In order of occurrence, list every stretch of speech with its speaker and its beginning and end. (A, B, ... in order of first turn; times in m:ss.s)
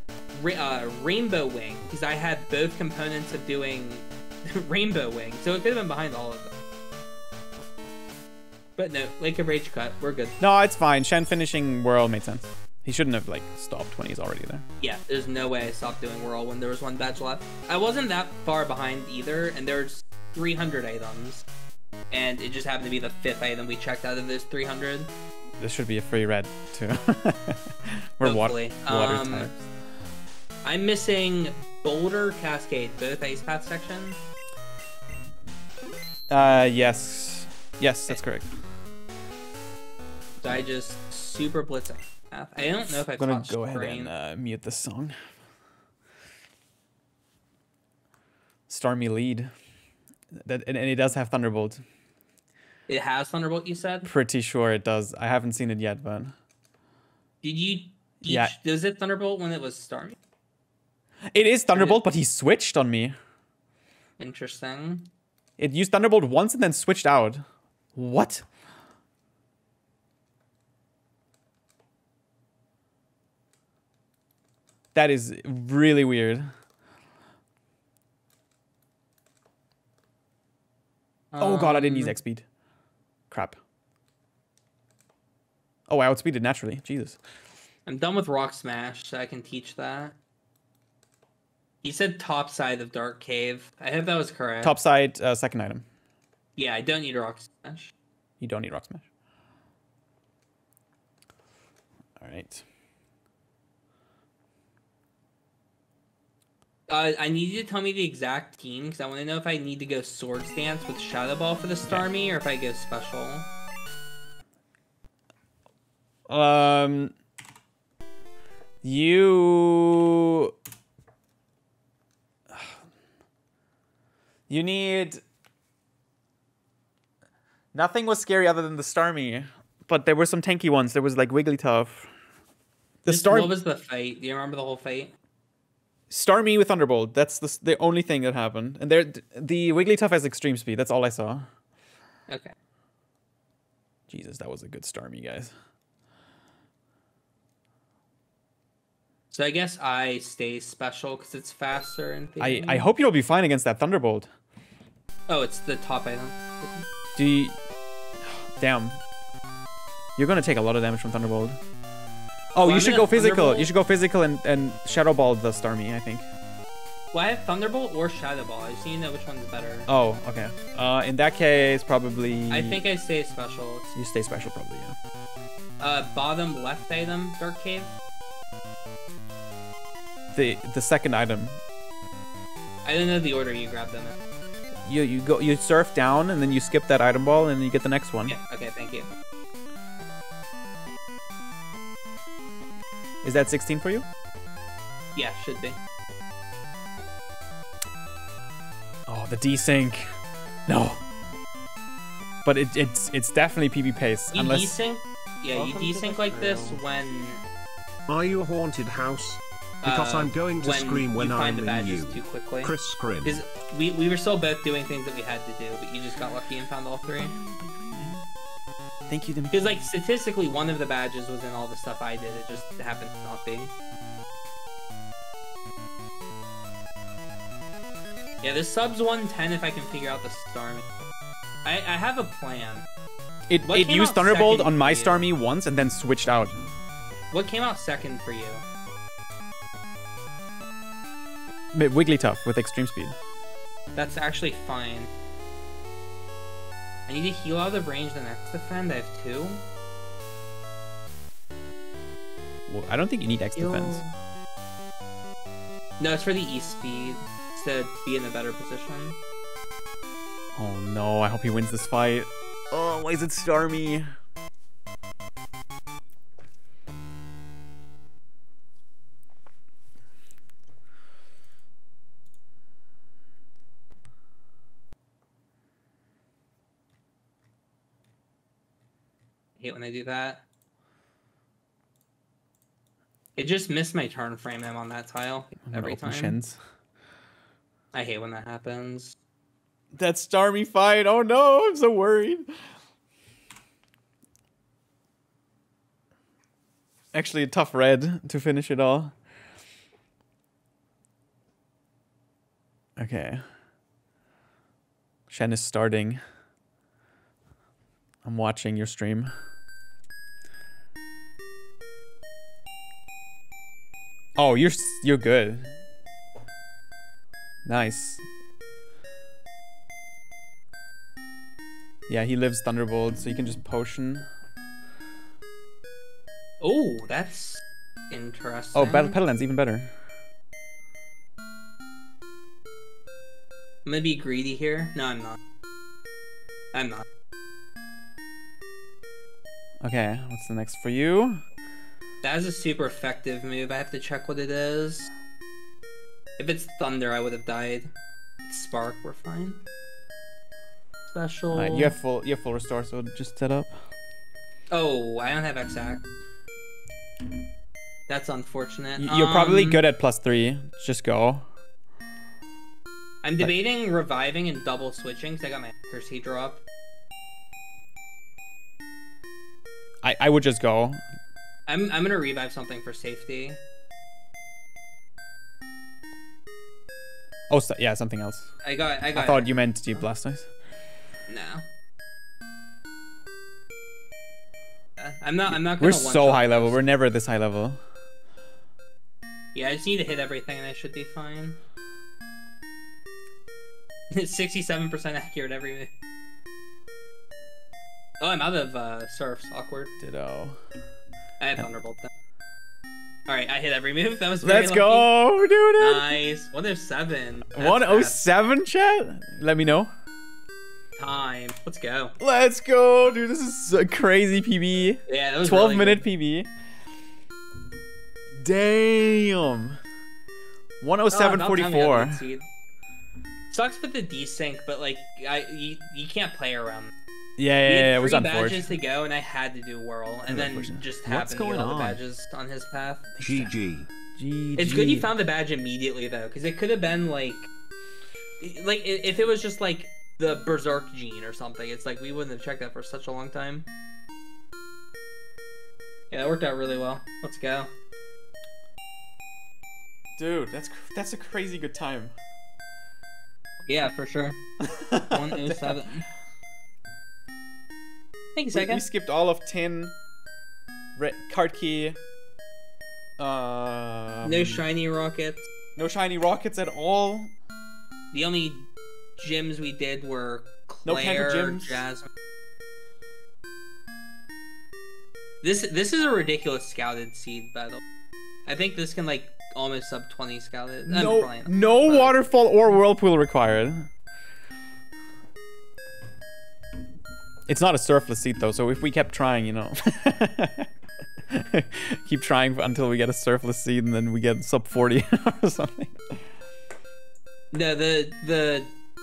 0:00.3-0:06.6 A
0:08.8-0:10.4 A
0:10.4-0:14.6 B
0:14.8-0:21.4 A
0:22.1-0:25.1 A
0:25.6-0:29.6 B
0:28.2-0:29.5 A
0:30.6-0:34.2 A
0:36.3-0:38.5 B
0:40.4-0:44.1 A
0:42.8-0:45.3 B
0:48.7-0:49.5 B
0:50.3-0:51.8 B
0:52.9-0:54.1 A
0:54.0-0:56.3 B
0:57.4-1:00.2 A
0:58.2-0:58.6 B
1:01.3-1:03.1 B
1:01.7-1:02.0 A
1:04.2-1:05.1 A
1:05.6-1:07.4 B
1:07.9-1:08.4 B
1:14.9-1:16.5 B
1:21.3-1:22.2 A
1:21.4-1:22.4 B
1:23.3-1:23.6 B
1:25.9-1:27.2 B
1:27.9-1:30.2 A
1:31.8-1:34.7 A
1:34.6-1:35.8 B
1:36.6-1:37.9 A
1:38.4-1:39.0 B
1:42.2-1:42.6 B
1:46.9-1:53.5 A
1:56.3-1:57.1 B
1:58.8-2:00.5 B
2:02.5-2:02.8 B
2:04.5-2:05.2 B
2:07.7-2:12.1 B
2:13.0-2:13.5 B
2:13.1-2:15.1 A
2:16.1-2:21.5 B
2:22.3-2:22.5 A
2:24.1-2:25.5 B
2:29.3-2:32.9 A
2:32.4-2:34.3 B
2:35.3-2:36.9 A
2:37.1-2:37.6 B
2:38.2-2:39.0 B
2:40.2-2:41.6 B
2:42.5-2:46.3 B
2:42.6-2:43.7 A
2:47.1-2:49.9 A
2:49.9-2:52.8 B
2:52.5-2:53.9 A
2:53.9-2:55.0 B
2:55.8-2:57.9 A
3:00.3-3:01.6 B
3:02.8-3:04.2 A
3:04.8-3:08.4 B
3:08.3-3:09.1 A
3:13.2-3:14.0 B
3:15.1-3:15.8 A
3:19.1-3:20.2 B
3:20.7-3:21.0 B
3:22.4-3:24.7 B
3:24.3-3:27.4 A
3:25.6-3:26.8 B
3:28.1-3:33.4 C
3:29.8-3:37.4 A
3:37.2-3:38.2 B
3:39.1-3:39.7 B
3:39.5-3:43.7 A
3:48.4-3:50.8 A
3:51.6-3:52.8 A
3:53.5-3:56.7 B
3:53.6-3:55.3 A
3:57.3-3:58.6 A
4:01.7-4:03.2 B
4:03.9-4:05.1 A
4:07.1-4:09.6 A
4:12.7-4:14.0 B
4:13.6-4:14.2 A
4:16.0-4:19.2 A
4:20.6-4:24.1 B
4:39.6-4:40.4 A
4:43.4-4:46.4 A
4:45.6-4:46.6 B
4:47.9-4:49.1 A
4:49.9-4:52.5 B
4:57.1-4:59.2 B
5:03.0-5:03.4 B
5:05.3-5:06.2 B
5:08.2-5:09.3 B
5:14.4-5:15.8 B
5:17.6-5:18.2 B
5:22.1-5:24.3 B
5:26.6-5:29.2 A
5:28.7-5:29.9 B
5:33.8-5:35.4 A
5:36.7-5:37.0 A
5:39.8-5:41.4 B
5:42.2-5:45.1 A
5:46.4-5:47.9 A
5:48.5-5:49.6 A
5:51.1-5:52.0 A
5:51.5-5:53.8 B
5:54.7-5:56.0 A
5:58.1-5:59.8 A
5:59.0-6:01.5 B
6:03.2-6:06.6 A
6:10.0-6:11.0 B
6:11.7-6:13.6 A
6:17.5-6:18.5 B
6:18.6-6:20.0 A
6:19.1-6:20.5 B
6:21.3-6:21.6 A
6:25.0-6:26.8 A
6:25.5-6:27.8 B
6:29.6-6:31.6 A
6:34.1-6:35.9 A
6:38.2-6:39.9 A
6:40.0-6:40.6 B
6:41.4-6:42.1 A
6:43.3-6:45.1 A
6:44.4-6:46.1 B
6:45.8-6:48.2 A
6:47.5-6:49.9 B
6:51.0-6:52.1 A
6:52.2-6:56.5 B
6:55.1-6:56.1 A
6:58.4-6:59.8 B
7:00.8-7:02.2 B
7:01.1-7:02.5 A
7:03.5-7:06.9 A
7:07.4-7:08.7 B
7:07.6-7:13.2 A
7:10.3-7:10.8 B
7:11.0-7:12.0 C
7:13.2-7:13.5 B
7:13.2-7:13.9 C
7:14.1-7:15.1 B
7:14.6-7:17.5 A
7:18.4-7:23.7 A
7:26.1-7:27.7 A
7:30.2-7:32.1 B
7:33.7-7:36.1 A
7:34.6-7:35.8 B
7:38.4-7:38.8 A
7:38.5-7:39.9 B
7:41.0-7:42.0 B
7:43.2-7:44.6 B
7:44.2-7:45.5 A
7:45.8-7:47.3 B
7:48.1-7:52.1 A
7:50.9-7:51.8 B
7:55.4-7:57.8 A
7:58.4-8:02.2 A
8:00.9-8:03.9 B
8:07.5-8:10.7 B
8:11.3-8:16.2 B
8:17.5-8:18.7 A